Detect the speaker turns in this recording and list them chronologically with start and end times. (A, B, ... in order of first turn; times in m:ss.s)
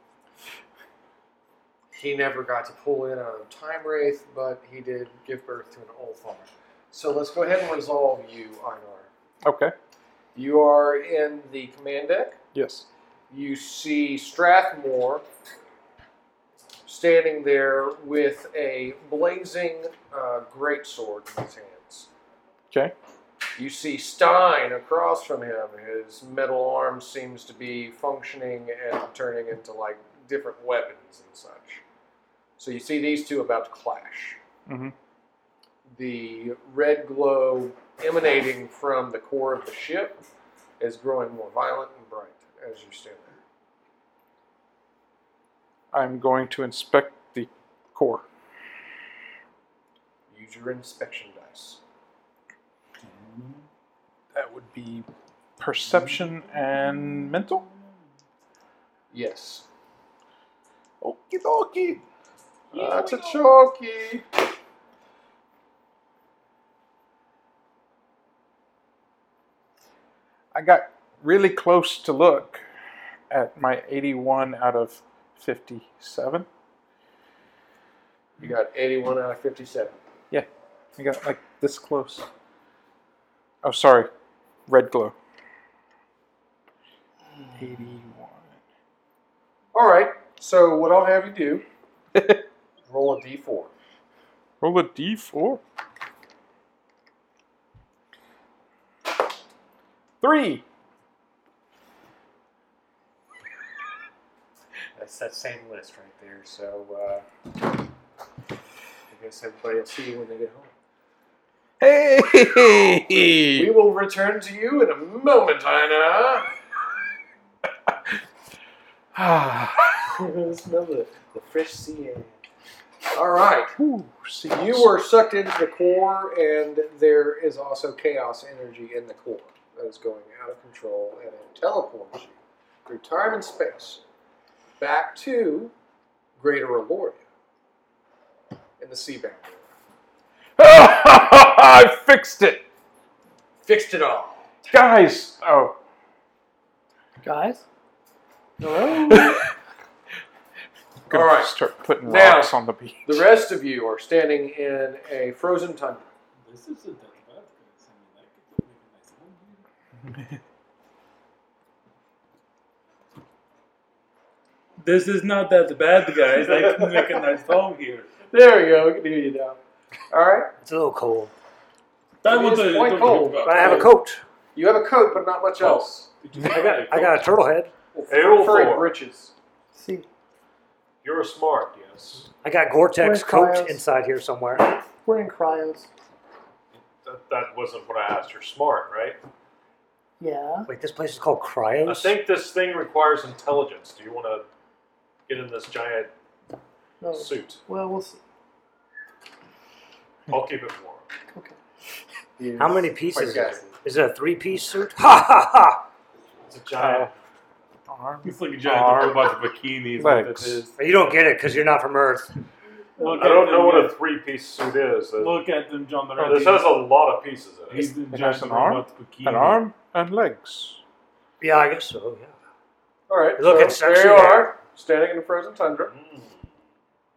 0:01.9-0:09.1 A
0:09.4-0:09.7 B
0:10.3-0:12.4 A
0:12.5-0:12.9 B
0:13.3-0:15.2 A
0:16.8-0:22.1 A
0:23.6-0:31.8 A
0:32.6-0:34.4 A
0:34.7-0:34.9 B
0:35.9-0:40.2 A
0:40.8-0:43.4 A
0:45.9-0:48.2 B
0:50.3-0:51.8 A
0:53.0-0:53.6 C
0:54.3-0:57.6 B
0:55.9-0:57.8 C
0:59.1-0:59.6 A
1:01.0-1:02.0 B
1:02.7-1:04.2 A
1:02.7-1:03.4 C
1:10.5-1:12.6 B
1:13.3-1:16.5 B
1:18.4-1:20.0 A
1:20.3-1:22.3 B
1:23.6-1:24.1 B
1:24.7-1:25.2 B
1:27.6-1:28.5 B
1:29.7-1:31.6 A
1:32.1-1:32.4 B
1:32.8-1:33.7 A
1:34.6-1:35.6 B
1:40.2-1:40.6 B
1:45.0-1:47.2 A
1:49.1-1:50.7 A
1:51.8-1:53.7 B
1:53.6-1:56.5 A
1:59.1-2:00.0 B
2:00.0-2:02.4 A
2:03.1-2:03.8 A
2:03.8-2:04.9 B
2:04.5-2:12.3 A
2:12.8-2:14.0 A
2:14.8-2:15.7 A
2:16.4-2:17.2 A
2:18.8-2:19.7 A
2:20.6-2:22.6 B
2:23.6-2:24.4 A
2:24.7-2:25.8 B
2:27.2-2:27.6 D
2:28.6-2:29.3 D
2:28.9-2:29.2 A
2:29.1-2:29.4 B
2:31.1-2:33.3 B
2:31.1-2:36.1 A
2:36.4-2:39.6 C
2:44.8-2:48.1 C
2:46.4-2:47.2 A
2:48.3-2:49.6 A
2:50.1-2:50.5 A
2:50.6-2:51.3 E
2:52.2-2:53.9 C
2:52.2-2:53.9 A
2:53.4-2:54.2 E
2:54.5-2:56.1 A
2:55.6-2:57.2 C
2:56.7-2:57.7 E
2:57.9-2:59.3 A
2:58.1-2:59.0 F
2:59.7-3:00.1 D
3:01.0-3:02.3 F
3:02.4-3:04.7 E
3:03.0-3:03.8 D
3:04.6-3:05.9 D
3:07.0-3:09.2 F
3:10.2-3:10.7 D
3:10.7-3:12.2 E
3:11.8-3:14.4 F
3:15.3-3:16.1 F
3:17.0-3:18.2 D
3:17.1-3:17.6 F
3:20.3-3:21.0 F
3:22.4-3:23.7 A
3:22.6-3:25.8 E
3:26.5-3:27.1 F
3:26.8-3:27.1 C
3:27.9-3:29.2 B
3:28.2-3:30.7 C
3:30.0-3:30.6 B
3:30.8-3:32.4 E
3:33.0-3:34.0 C
3:33.2-3:35.4 F
3:35.2-3:36.8 C
3:36.2-3:37.9 F
3:37.7-3:39.6 C
3:38.1-3:40.8 B
3:41.4-3:42.3 E
3:43.1-3:45.9 A
3:43.4-3:44.5 E
3:45.9-3:46.3 F